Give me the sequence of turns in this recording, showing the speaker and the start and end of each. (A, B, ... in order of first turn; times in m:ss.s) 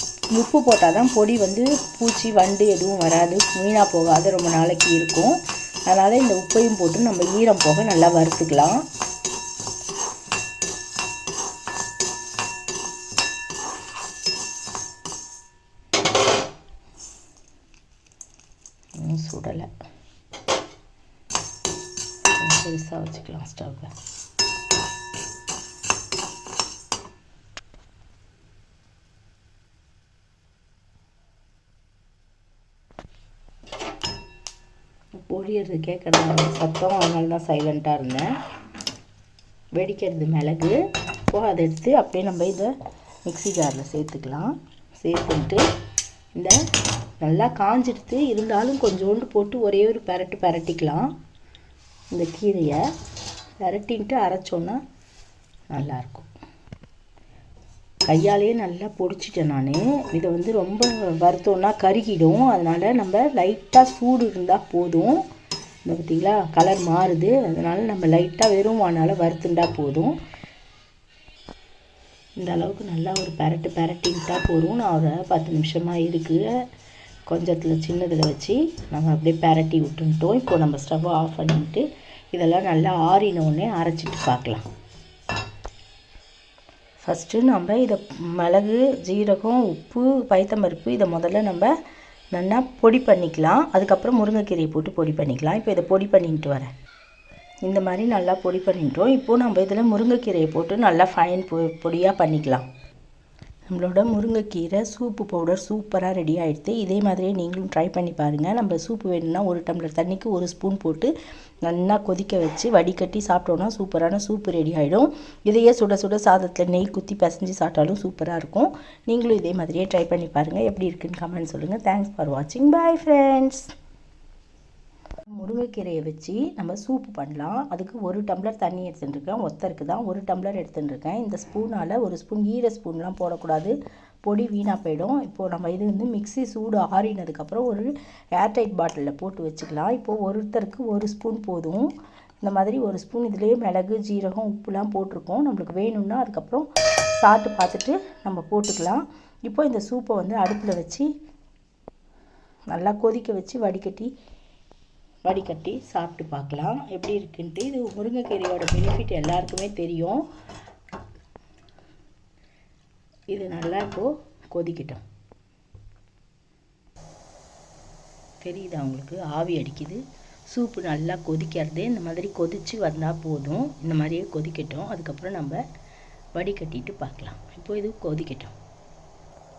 0:00.3-0:08.8 A
0:19.0-0:19.7 A
0:22.4-0:23.9 A
0:35.2-0:38.2 A
0:39.8-0:40.8 A
0:41.3-0:42.7 A
0:43.2-0:45.6 A
0:47.2-0:51.1 A
0:52.1-0:52.8 A
0:53.6-0:54.8 A
0:55.7-0:56.3 A
0:58.0-1:05.2 A
1:05.8-1:10.1 A
1:12.4-1:16.5 A
1:17.3-1:24.6 A
1:27.0-1:31.7 A
1:32.3-1:36.7 A
1:37.6-1:42.6 A
1:43.7-1:51.1 A
1:51.6-2:03.7 A
2:05.4-2:21.9 A
2:22.4-2:26.7 A
2:27.2-2:31.1 A
2:32.7-2:34.1 A
2:35.2-2:40.2 A
2:43.3-2:45.0 A
2:48.4-2:55.6 A
2:56.4-2:58.5 A